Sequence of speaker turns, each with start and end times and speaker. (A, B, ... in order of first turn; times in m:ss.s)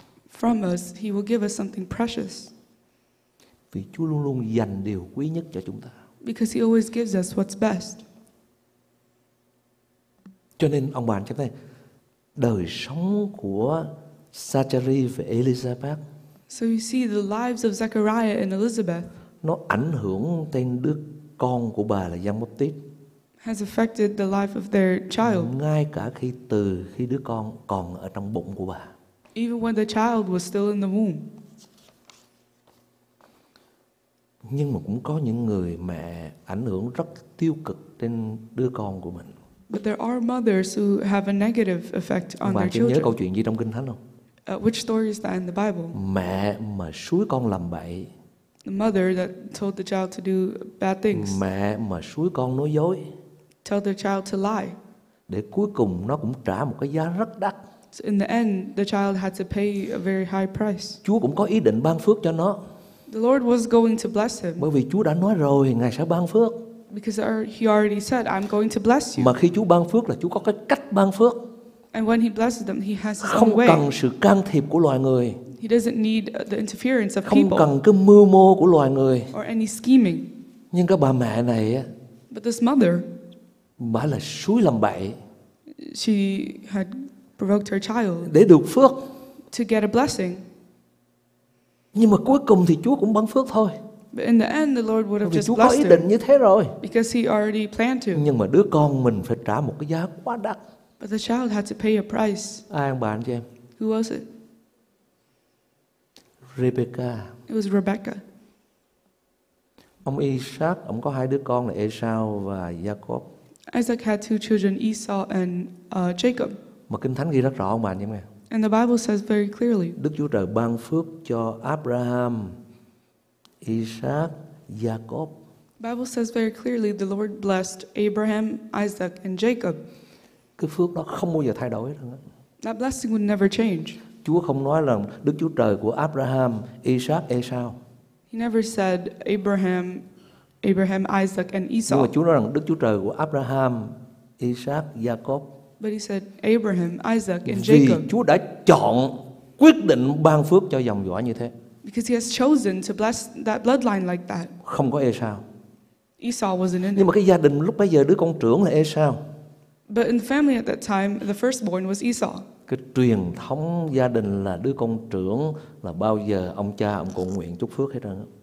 0:00.3-0:02.5 A
0:03.7-0:05.9 B
0:06.2-0:08.0 A
0:10.6-0:11.5 B
0:12.4-0:16.0 B
0:16.5-0:19.1 A
0:19.4-0:22.8 B
0:23.4-0:25.5 A
0:25.2-0:28.9 B
0:29.3-0:31.3 A
0:34.4-0:39.3 B
0:39.7-0:43.1 A
0:42.4-0:44.0 B
0:44.5-0:46.0 A
0:45.9-0:48.1 B
0:48.6-0:51.4 A
0:51.1-0:53.1 B
0:53.6-0:54.8 A
0:55.3-0:57.6 B
0:57.9-1:01.0 A
1:01.0-1:02.6 B
1:03.1-1:04.6 A
1:04.6-1:06.6 B
1:06.9-1:09.3 A
1:09.2-1:11.5 B
1:11.9-1:13.8 A
1:13.2-1:15.4 B
1:15.5-1:17.7 A
1:17.2-1:19.3 B
1:19.3-1:20.3 A
1:20.7-1:21.9 B
1:22.3-1:23.1 A
1:23.8-1:25.2 B
1:25.8-1:28.3 A
1:28.2-1:29.1 B
1:29.5-1:30.4 A
1:31.9-1:33.8 B
1:34.1-1:36.1 A
1:35.2-1:36.8 B
1:36.8-1:38.2 A
1:38.1-1:40.6 B
1:41.0-1:42.6 A
1:42.7-1:43.4 B
1:43.8-1:44.2 A
1:46.5-1:47.3 B
1:47.5-1:48.2 A
1:50.0-1:53.3 B
1:53.7-1:56.6 A
1:56.9-1:58.2 B
1:58.5-2:00.0 A
2:00.0-2:02.6 B
2:03.6-2:05.4 B
2:05.8-2:09.8 A
2:10.6-2:12.2 B
2:12.6-2:14.0 A
2:14.2-2:17.8 B
2:18.3-2:20.0 A
2:20.6-2:22.1 A
2:21.9-2:25.5 B
2:25.8-2:28.1 A
2:27.4-2:31.5 B
2:31.8-2:34.5 A
2:34.6-2:35.4 B
2:36.2-2:37.1 A
2:36.9-2:39.2 B
2:39.9-2:42.4 A
2:42.7-2:48.3 B